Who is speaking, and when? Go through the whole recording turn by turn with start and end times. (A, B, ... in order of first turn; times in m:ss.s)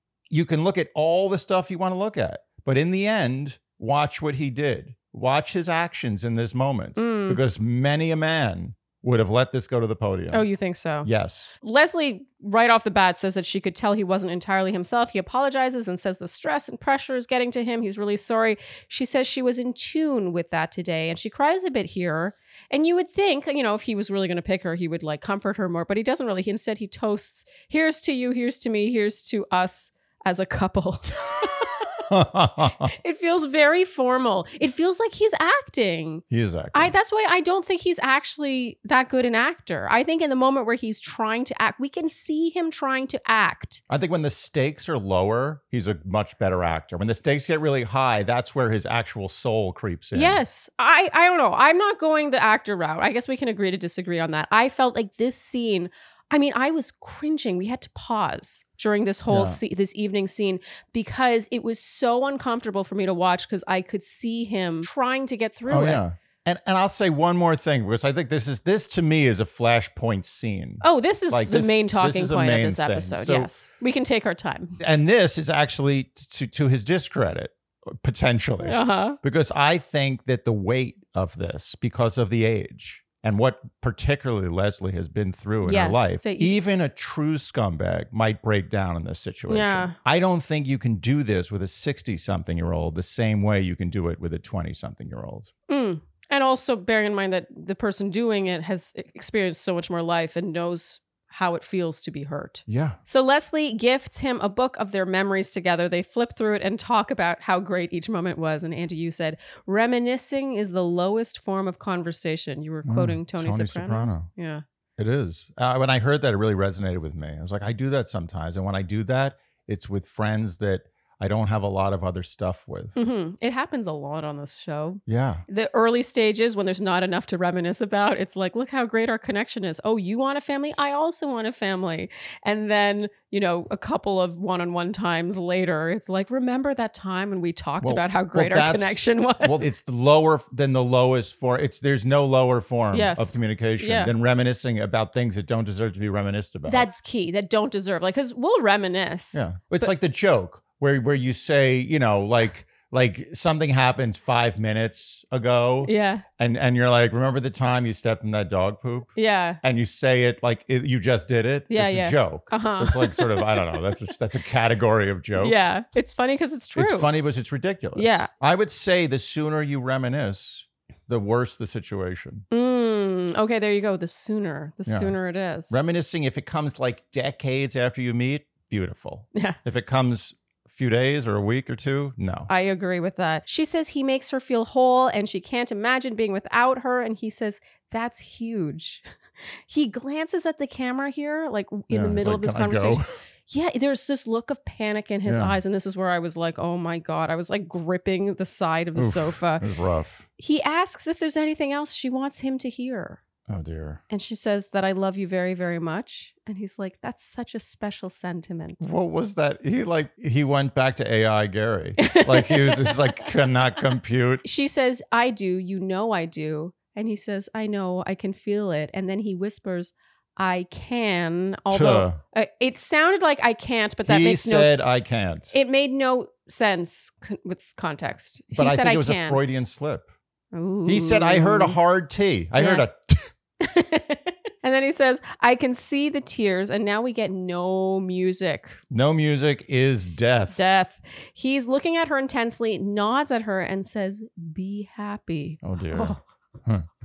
0:00.3-0:10.4 A
0:07.0-0:07.4 B
0:10.3-0:11.1 B
0:11.0-0:11.5 A
0:11.6-0:32.1 B
0:32.1-0:32.9 A
0:32.8-0:43.8 B
0:36.3-0:36.9 A
0:43.9-0:50.4 A
0:50.1-1:06.0 B
0:59.3-0:59.6 A
1:05.7-1:13.5 A
1:10.8-1:14.8 B
1:14.8-1:35.5 A
1:18.6-1:19.2 B
1:25.6-1:26.6 B
1:29.5-1:30.0 B
1:35.7-1:54.6 B
1:42.7-1:43.0 A
1:52.8-1:54.3 A
1:55.0-2:03.0 A
2:03.0-2:19.6 B
2:05.1-2:05.4 A
2:17.8-2:26.9 A
2:22.9-2:24.1 B
2:26.7-2:29.9 B
2:29.3-2:45.6 A
2:35.8-2:36.2 B
2:39.2-2:39.6 B
2:41.7-2:43.8 B
2:45.4-2:47.1 B
2:46.8-2:52.4 A
2:48.0-2:48.3 B
2:52.5-2:55.8 B
2:54.9-2:55.2 A
2:55.7-3:02.5 A
3:02.5-3:09.0 B
3:09.7-3:19.6 B
3:11.9-3:13.1 A
3:15.3-3:15.6 A
3:19.0-3:20.3 A
3:20.4-3:23.2 B
3:23.5-3:24.0 A
3:24.1-3:28.8 B
3:28.8-3:34.4 A
3:32.0-3:33.2 B
3:34.4-3:44.8 B
3:41.7-3:42.2 A
3:44.1-3:45.5 A
3:45.5-3:49.4 B
3:48.5-3:50.1 A
3:50.5-3:51.8 B
3:50.9-3:53.3 A
3:52.6-3:52.8 B
3:53.6-3:58.8 B
3:58.9-4:00.7 A
4:00.5-4:06.2 B
4:05.6-4:06.9 A